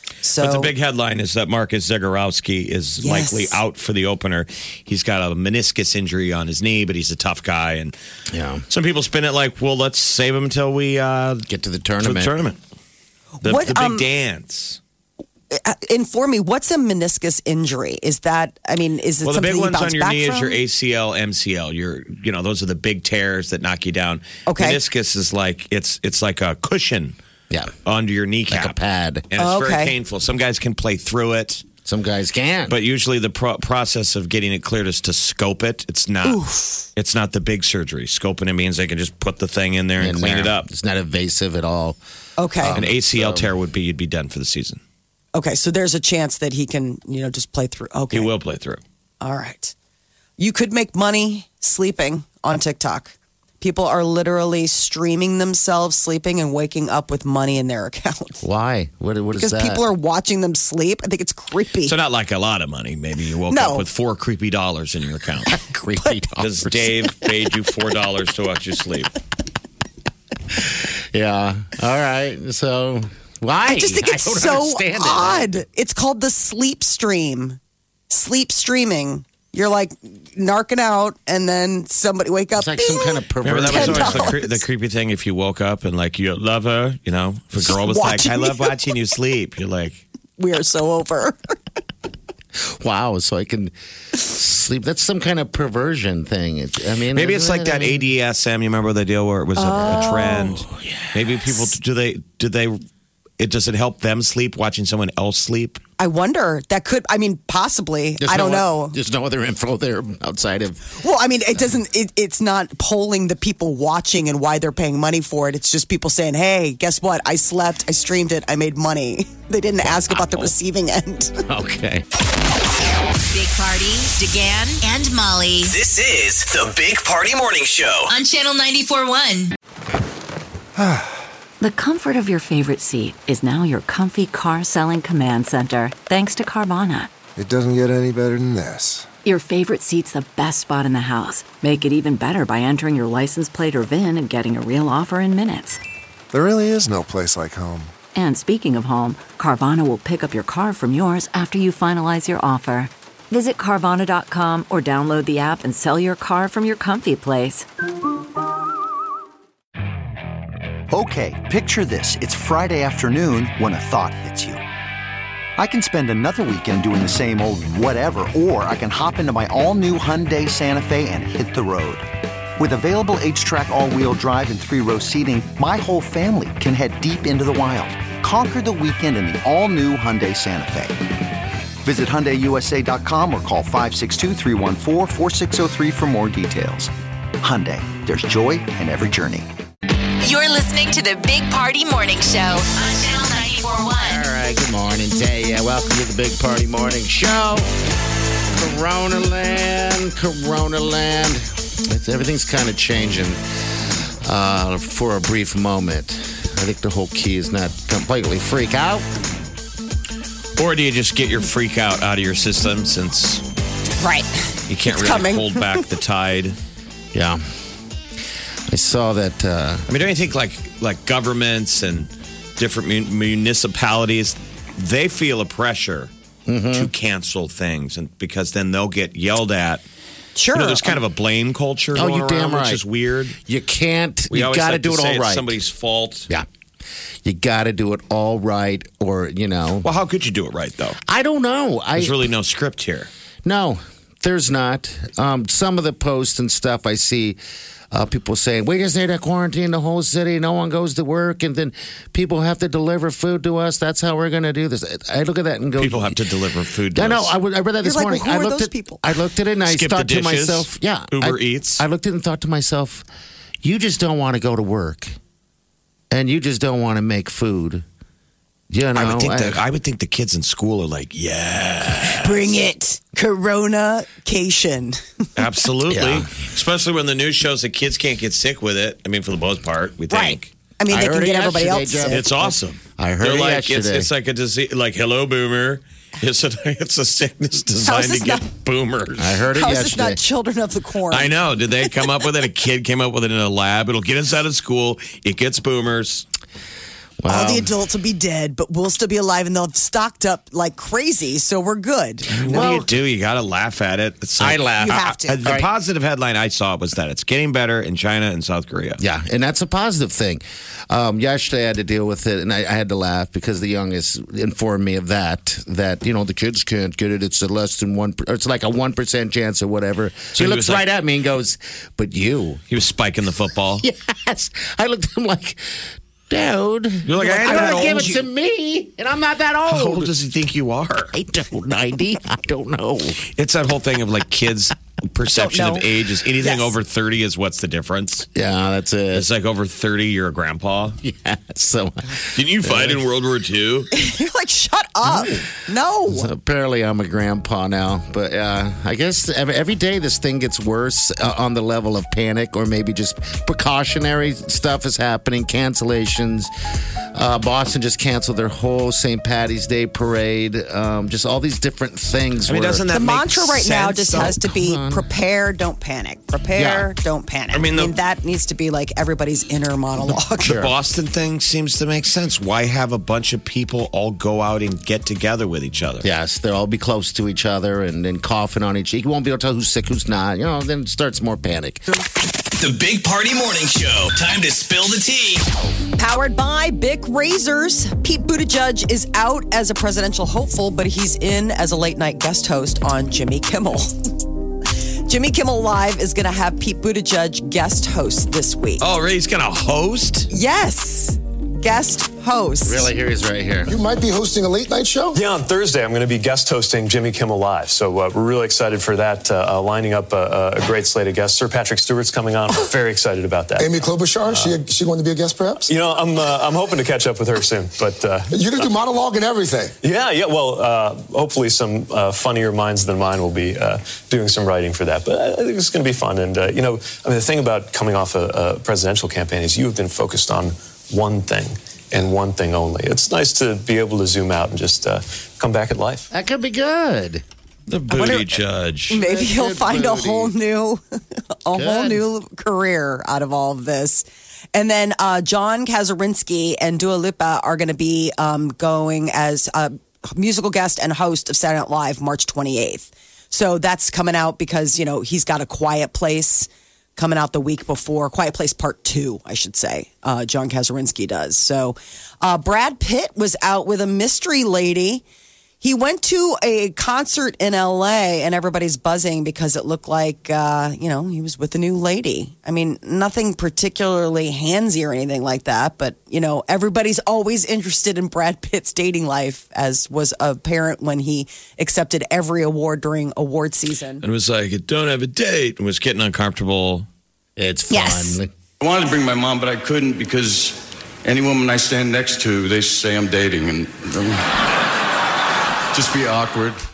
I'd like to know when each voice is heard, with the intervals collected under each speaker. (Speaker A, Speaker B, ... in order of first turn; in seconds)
Speaker A: 0.2-0.7, 3.0-3.6, 13.4-14.1, 15.5-20.6, 24.5-24.8, 29.4-29.9, 36.2-36.9, 42.4-42.8, 45.3-48.3, 49.2-49.7, 50.4-58.4, 59.4-61.9, 63.5-63.8, 65.6-66.1, 73.7-77.6, 78.1-84.6, 87.5-88.9, 90.4-91.3, 99.5-100.6, 106.0-109.0, 111.0-121.4, 214.0-215.8, 230.3-231.0, 257.8-259.0, 272.2-275.0, 280.1-282.2, 287.8-288.4, 289.6-291.3, 297.3-302.8, 304.8-305.5, 327.2-328.2, 335.3-335.8, 336.4-336.7, 343.9-346.3, 362.9-370.6, 386.0-393.9, 395.1-398.8, 400.3-402.9, 437.9-465.0, 465.6-484.0
Speaker B: 0.4-7.9, 8.7-11.5, 12.0-12.6, 13.4-14.8, 19.2-27.1, 27.9-28.8, 29.3-31.6, 32.7-36.4, 37.0-40.7, 42.7-44.8, 48.1-48.8, 61.8-65.6, 66.4-69.1, 83.4-90.0, 97.1-102.8, 103.4-105.8, 210.6-213.4, 214.7-216.6, 219.9-226.1, 226.7-229.8, 230.5-233.4, 234.3-236.3, 239.8-241.0, 241.9-243.1, 255.8-257.3, 259.6-261.8, 268.9-272.6, 275.4-280.5, 282.1-289.4, 291.1-296.2, 302.3-309.0, 320.3-320.8, 322.7-323.8, 327.0-328.2, 329.7-331.1, 333.4-338.3, 339.1-341.0, 342.3-343.9, 362.4-364.4, 367.5-367.9, 370.4-376.1, 398.8-400.3, 437.7-439.0, 484.0-486.9
Speaker C: 8.3-8.6, 11.5-12.3, 27.5-27.7, 28.5-29.2, 31.9-32.8, 40.0-42.0, 42.6-43.5, 58.4-59.8, 65.8-67.3, 70.5-75.6, 82.5-84.4, 92.6-98.0, 99.8-100.1, 100.8-101.5, 108.2-111.0, 121.5-122.0, 194.0-197.7, 198.5-203.4, 204.2-209.0, 217.1-217.4, 218.7-219.8, 226.5-226.9, 231.9-232.8, 233.4-235.6, 237.2-239.9, 241.1-242.3, 243.4-247.4, 247.9-256.2, 256.9-263.1, 263.6-265.1, 266.1-267.8, 268.7-269.6, 275.9-276.3, 280.9-284.1, 289.2-290.2, 297.2-297.7, 302.4-302.9, 304.4-305.7, 309.0-322.6, 323.8-325.6, 326.3-330.1, 331.1-333.2, 338.3-339.3, 341.0-343.0, 345.0-345.4, 346.1-356.5, 357.1-362.9, 364.1-365.1, 366.5-366.9, 370.4-370.7, 376.0-381.9, 402.6-403.8, 436.1-437.2, 438.9-440.3, 441.5-442.0, 487.4-488.3
Speaker D: 123.3-125.7, 128.1-129.5, 190.2-194.2, 487.7-488.2
Speaker E: 125.6-128.1, 382.6-385.4
Speaker F: 130.8-131.2, 137.3-139.1, 146.3-147.9
Speaker G: 131.6-137.1, 139.2-145.8, 148.1-157.7
Speaker H: 160.9-164.6, 165.6-181.0, 181.8-189.5
Speaker I: 403.6-405.2, 413.6-415.7, 418.3-419.8
Speaker J: 405.1-414.6, 415.7-418.6, 419.8-436.1
Speaker K: 488.6-494.3, 495.7-496.6